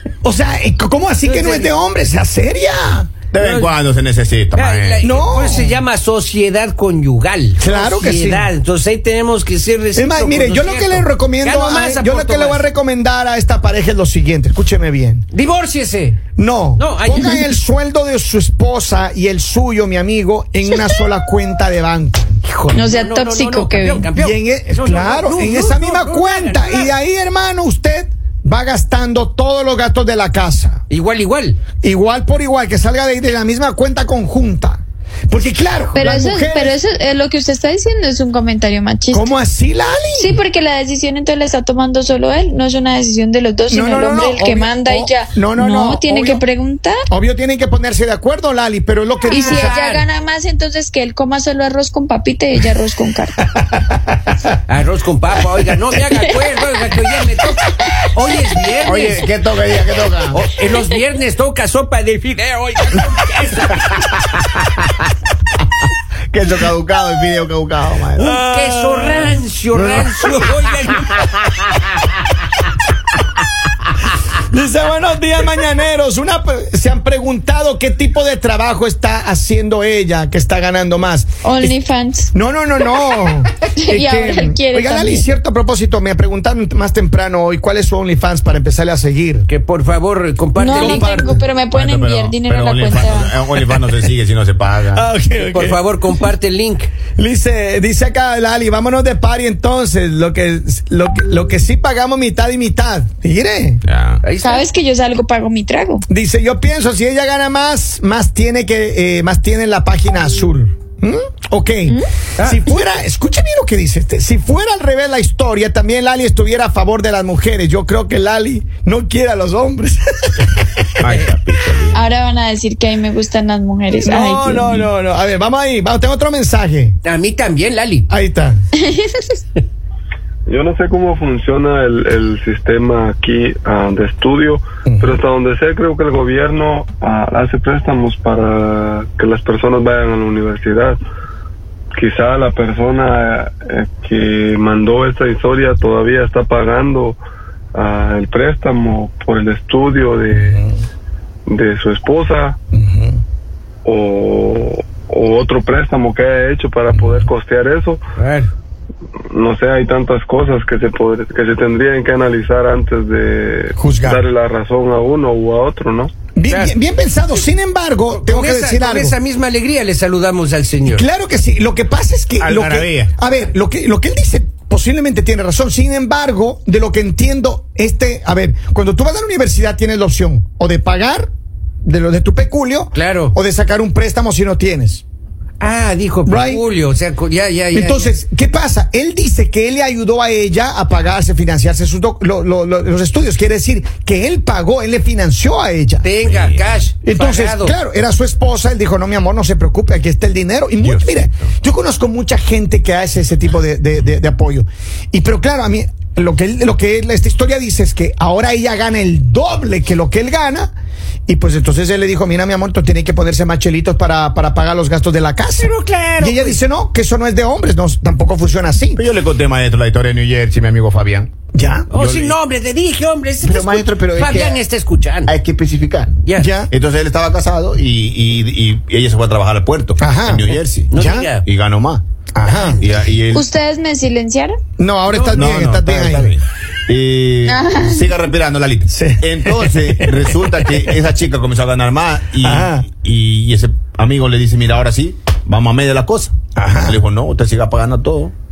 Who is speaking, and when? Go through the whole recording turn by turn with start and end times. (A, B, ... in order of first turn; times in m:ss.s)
0:00.2-0:03.1 A
0:01.2-0:01.7 B
0:03.3-0:05.5 C
0:03.4-0:03.7 B
0:04.5-0:12.7 B
0:05.0-0:05.8 A
0:07.6-0:08.5 A
0:10.0-0:15.3 A
0:15.3-0:16.2 B
0:16.4-0:22.4 A
0:16.8-0:17.4 B
0:22.4-0:26.9 B
0:22.7-0:24.1 D
0:24.1-0:30.8 A
0:30.9-0:31.6 B
0:31.8-0:36.8 A
0:36.0-0:39.3 D
0:39.1-0:40.4 A
0:40.2-0:47.0 D
0:43.7-0:46.4 A
0:47.1-0:49.9 A
0:49.3-0:53.4 D
0:49.3-0:50.0 B
0:54.7-0:59.2 B
0:58.8-1:00.4 C
1:00.3-1:04.3 B
1:06.3-1:08.4 C
1:08.2-1:11.2 B
1:08.5-1:09.3 A
1:09.7-1:10.4 C
1:14.4-1:21.8 A
1:21.4-1:22.3 D
1:22.3-1:29.5 A
1:23.8-1:25.3 D
1:29.5-1:31.3 B
1:30.6-1:33.3 D
1:30.7-1:31.5 A
1:31.7-1:35.1 C
1:35.0-1:35.8 A
1:35.4-1:36.9 B
1:37.2-1:43.8 A
1:43.9-1:44.2 C
1:44.2-1:44.7 B
1:44.4-1:46.0 D
1:46.1-2:00.6 A
2:01.0-2:02.1 C
2:01.9-2:04.9 D
2:04.0-2:07.0 A
2:07.0-2:08.1 B
2:08.1-2:08.6 A
2:10.5-2:21.0 E
2:14.9-2:15.2 A
2:22.0-2:27.2 E
2:27.7-2:30.6 E
2:30.3-2:30.8 A
2:31.5-2:32.6 E
2:32.7-2:33.2 A
2:33.8-2:38.0 E
2:36.9-2:37.3 A
2:38.2-2:38.5 B
2:39.3-2:46.1 E
2:43.8-2:44.2 A
2:46.4-2:49.2 A
2:46.5-2:46.8 B
2:48.1-2:51.1 B
2:50.9-3:01.3 A
2:52.4-2:53.1 C
3:01.8-3:05.0 A
3:02.9-3:03.4 B
3:05.6-3:08.2 B
3:06.3-3:06.6 A
3:07.7-3:16.1 A
3:16.0-3:17.8 B
3:16.2-3:16.7 C
3:17.0-3:30.7 A
3:20.8-3:21.4 C
3:31.3-3:39.0 A
3:35.6-3:36.6 B
3:39.0-3:41.3 C
3:41.5-3:41.9 A
3:41.9-3:45.3 B
3:41.9-3:42.4 C
3:43.4-3:44.6 C
3:45.3-3:46.1 C
3:46.2-3:46.5 B
3:46.4-3:46.7 A
3:46.7-3:50.9 C
3:50.0-3:51.3 A
3:50.9-3:51.4 B
3:51.4-3:52.0 C
3:52.4-3:52.8 A
3:52.8-3:53.4 C
3:53.3-3:54.6 D
3:54.8-3:56.4 A
3:55.1-3:55.4 B
3:55.2-4:08.3 C
3:57.5-3:58.1 D
3:58.9-4:00.9 A
4:02.4-4:02.9 A
4:06.6-4:07.0 A